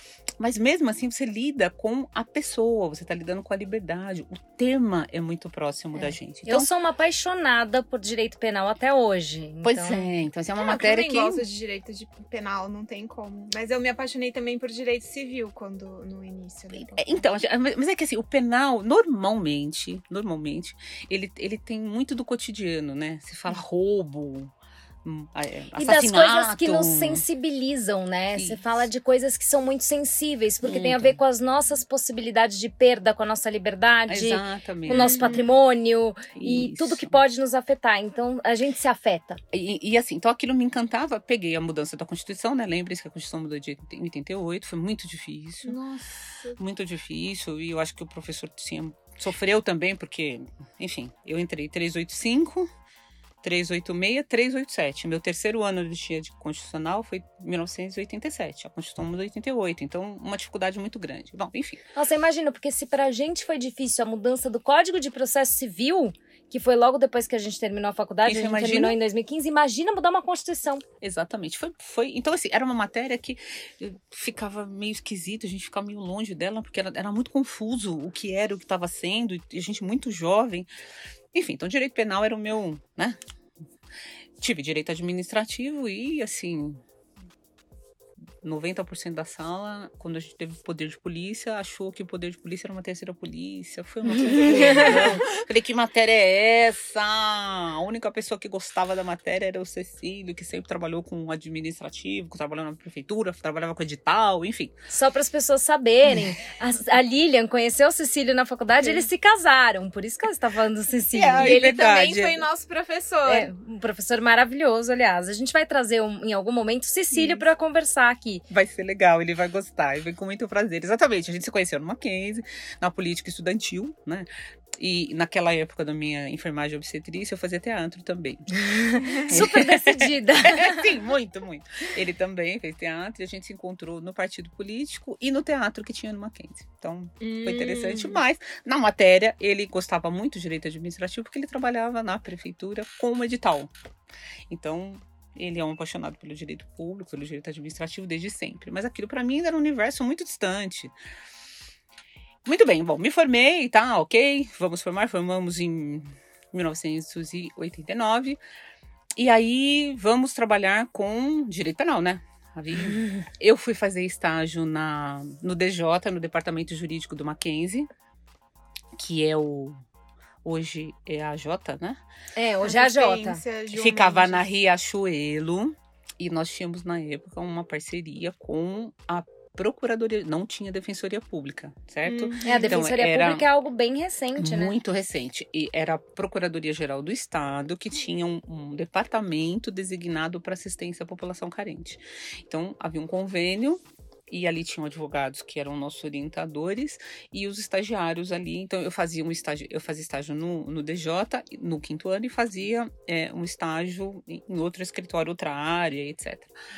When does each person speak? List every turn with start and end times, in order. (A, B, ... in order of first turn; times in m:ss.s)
0:00.4-0:06.7 A
0:05.9-0:10.1 B
0:09.6-0:11.4 A
0:10.6-0:17.3 C
0:16.7-0:27.2 A
0:25.7-0:39.4 B
0:28.3-0:28.8 A
0:30.6-0:31.2 A
0:34.1-0:35.4 A
0:34.9-0:35.4 C
0:36.3-0:37.2 A
0:39.5-0:45.8 A
0:45.6-0:46.6 C
0:46.6-0:52.7 A
0:53.4-1:01.8 A
1:01.9-1:10.8 B
1:08.2-1:09.0 A
1:11.0-1:20.7 A
1:21.3-1:23.2 A
1:24.4-1:26.8 A
1:28.4-1:44.8 A
1:34.6-1:35.0 C
1:44.9-1:51.6 B
1:51.1-1:52.4 A
1:51.3-1:53.5 C
1:53.3-1:58.4 B
1:57.1-1:57.4 A
1:58.5-2:08.5 A
2:08.6-2:10.9 B
2:09.0-2:09.4 C
2:09.3-2:23.7 A
2:17.2-2:18.2 C
2:24.5-2:30.9 A
2:32.4-2:38.4 A
2:39.2-2:47.9 A
2:49.0-2:49.8 A
2:50.4-2:52.0 A
2:52.4-2:53.4 B
2:52.6-2:54.5 C
2:53.7-3:03.4 A
3:02.0-3:02.8 C
3:02.4-3:04.8 B
3:04.4-3:26.5 A